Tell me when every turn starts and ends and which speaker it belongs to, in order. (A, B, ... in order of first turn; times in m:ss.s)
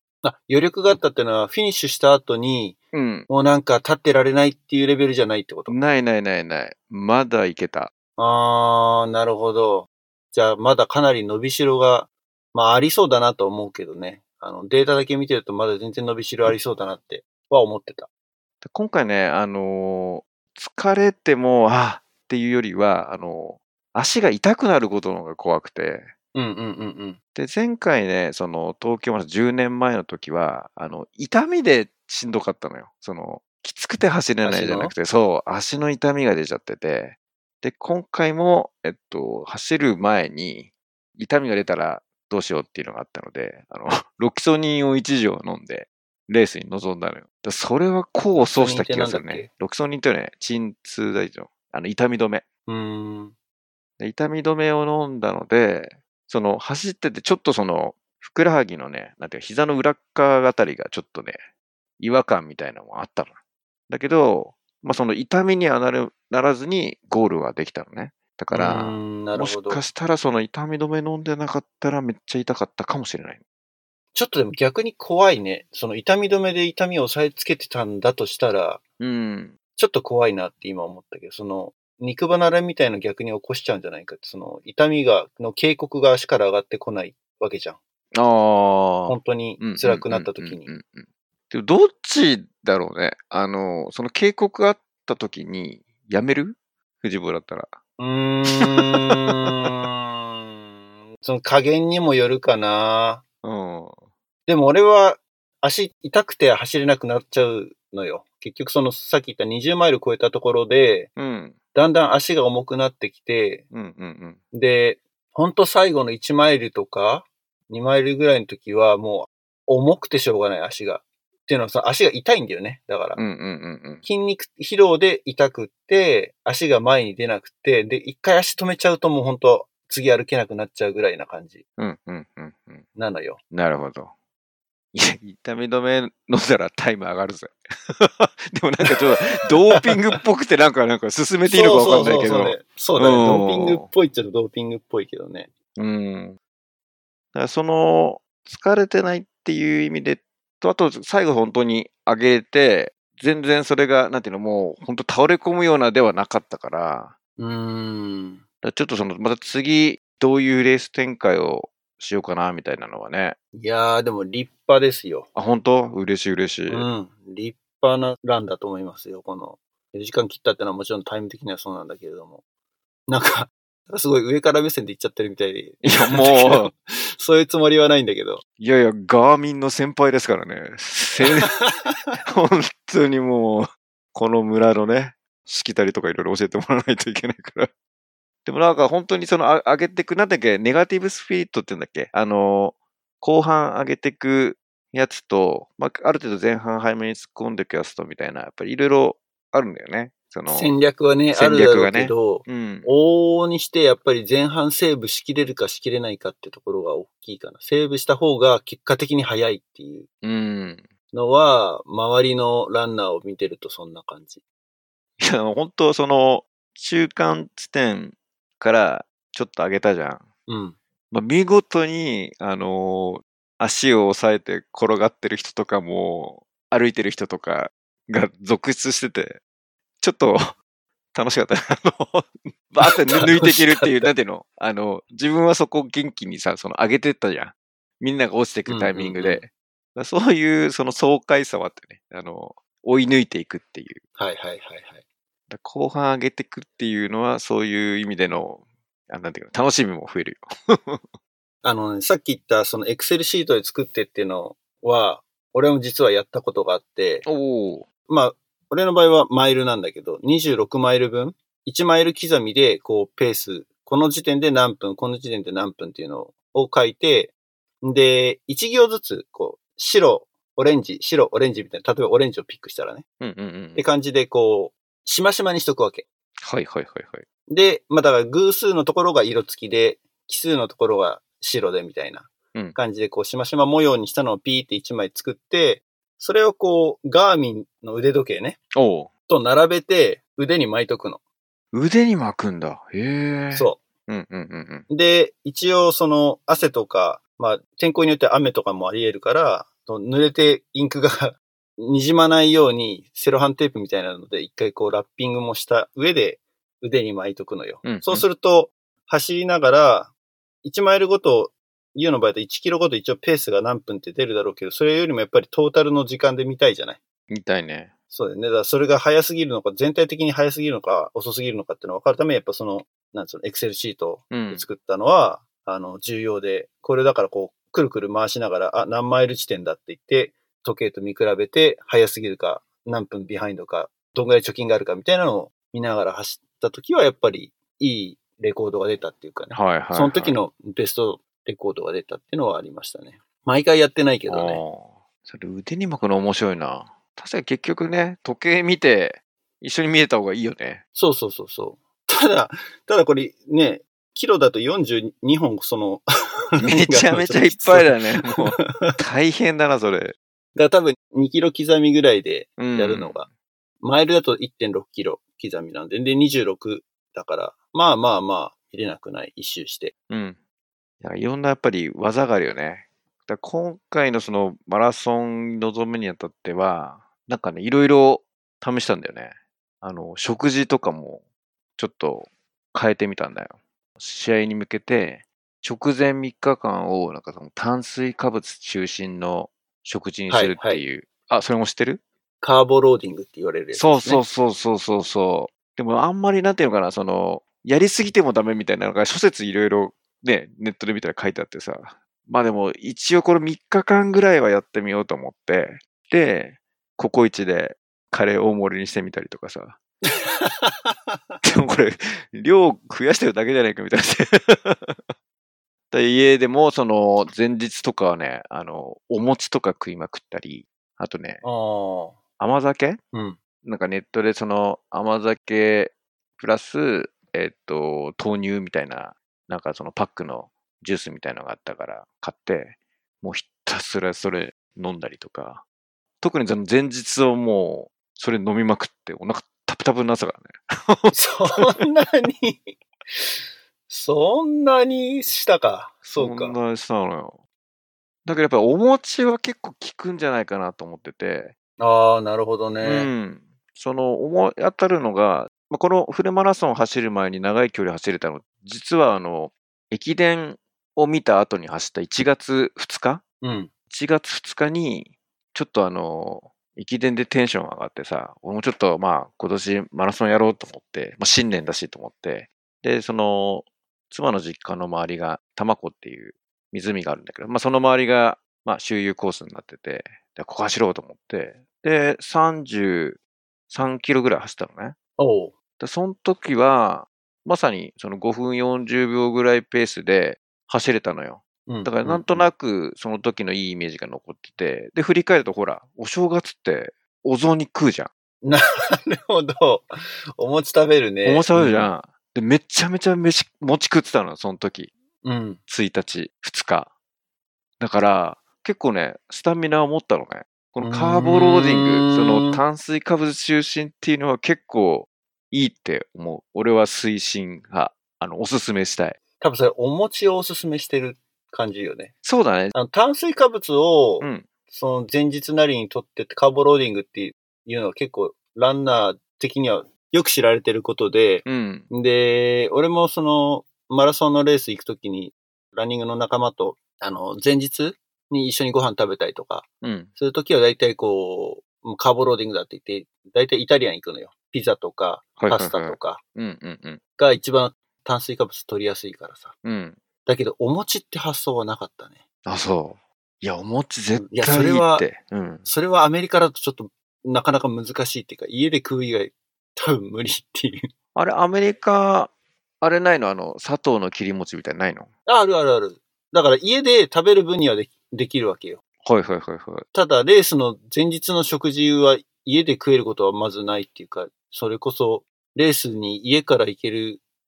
0:00.2-0:02.8 A
0:02.9-0:03.3 B
0:03.3-0:05.8 A
0:05.7-0:07.9 B
0:08.2-0:18.1 A
0:18.6-0:26.1 B
0:26.4-0:27.2 A
0:27.4-0:52.4 B
0:34.4-0:34.9 A
0:48.4-0:49.5 A
0:52.7-0:53.3 A
0:54.0-1:01.4 B
1:02.0-1:03.3 B
1:03.9-1:13.4 B
1:08.5-1:09.8 A
1:14.2-1:18.8 A
1:19.0-1:19.6 B
1:19.8-1:27.8 A
1:28.1-1:37.8 B
1:29.1-1:30.7 A
1:38.0-1:40.5 A
1:38.6-1:39.6 B
1:41.2-1:43.2 A
1:43.4-1:44.0 B
1:44.5-1:51.1 A
1:51.2-1:51.6 B
1:51.7-1:53.6 A
1:53.7-1:54.4 B
1:54.5-2:03.2 A
2:03.2-2:04.0 B
2:04.0-2:11.6 A
2:11.8-2:12.9 B
2:13.0-2:13.4 A
2:13.5-2:14.1 B
2:14.9-2:23.9 B
2:18.8-2:20.2 A
2:21.4-2:25.5 A
2:25.8-2:26.4 B
2:27.4-2:37.2 B
2:37.4-2:38.4 A
2:38.6-2:43.4 B
2:43.6-2:45.3 A
2:45.4-2:46.9 B
2:46.7-2:52.4 A
2:53.1-2:58.4 A
2:55.8-2:56.7 B
2:58.6-3:01.6 B
3:01.2-3:02.0 A
3:02.2-3:07.7 B
3:08.5-3:20.7 B
3:20.5-3:30.1 A
3:21.3-3:22.9 B
3:30.2-3:30.9 B
3:31.1-3:34.4 A
3:35.2-3:40.2 B
3:40.5-3:40.8 A
3:41.1-3:49.4 B
3:50.0-3:50.6 B
3:51.1-4:04.0 B
3:52.8-3:54.1 A
3:58.7-3:59.4 A
4:04.2-4:05.0 A
4:05.5-4:11.2 B
4:11.6-4:17.3 A
4:17.2-4:17.9 B
4:18.1-4:33.0 A
4:33.2-4:33.8 B
4:33.8-4:36.0 A
4:36.4-4:37.2 B
4:37.5-4:48.6 A
4:48.8-4:49.1 B
4:49.3-4:51.2 A
4:51.7-4:54.9 B
4:53.5-4:53.8 A
4:54.9-5:10.1 A
5:07.8-5:08.2 B
5:10.6-5:17.0 A
5:17.3-5:17.9 B
5:18.1-5:44.6 A
5:24.3-5:24.6 B
5:39.5-5:40.4 B
5:44.3-5:50.8 B
5:51.0-5:59.0 A
5:56.6-6:00.2 B
6:00.6-6:03.3 A
6:02.6-6:03.2 B
6:03.8-6:09.9 A
6:10.1-6:10.4 B
6:11.0-6:21.2 B
6:21.8-6:32.0 B
6:30.3-6:30.8 A
6:32.4-6:34.2 A
6:33.7-6:49.8 B
6:50.1-6:51.4 A
6:51.4-6:55.1 B
6:55.9-7:01.4 B
7:01.4-7:02.2 A
7:02.4-7:03.0 B
7:03.1-7:03.4 A
7:03.6-7:15.6 B
7:16.2-7:21.2 B
7:21.1-7:23.4 A
7:23.9-7:26.6 A
7:26.2-7:27.4 B
7:28.2-7:31.5 B
7:31.8-7:33.1 A
7:32.8-7:43.2 B
7:43.4-7:43.7 A
7:43.9-8:03.2 B
8:03.7-8:05.0 B
8:05.2-8:05.5 A
8:05.8-8:18.1 B
8:11.7-8:12.5 A
8:18.4-8:21.9 A
8:21.2-8:24.9 B
8:25.2-8:25.6 A
8:25.7-8:26.9 B
8:27.8-8:39.2 B
8:30.8-8:32.6 A
8:39.4-8:42.1 A
8:42.2-8:42.7 B
8:42.7-9:06.2 A
8:44.2-8:44.5 B
8:51.5-8:51.9 B
8:59.8-9:00.1 B
9:05.4-9:07.0 B
9:07.2-9:09.5 A
9:09.6-9:10.0 B
9:10.3-9:12.2 A
9:12.4-9:15.7 B
9:14.1-9:15.1 A
9:15.7-9:20.9 A
9:21.2-9:25.1 B
9:25.3-9:28.8 A
9:29.0-9:29.8 B
9:29.9-9:37.2 A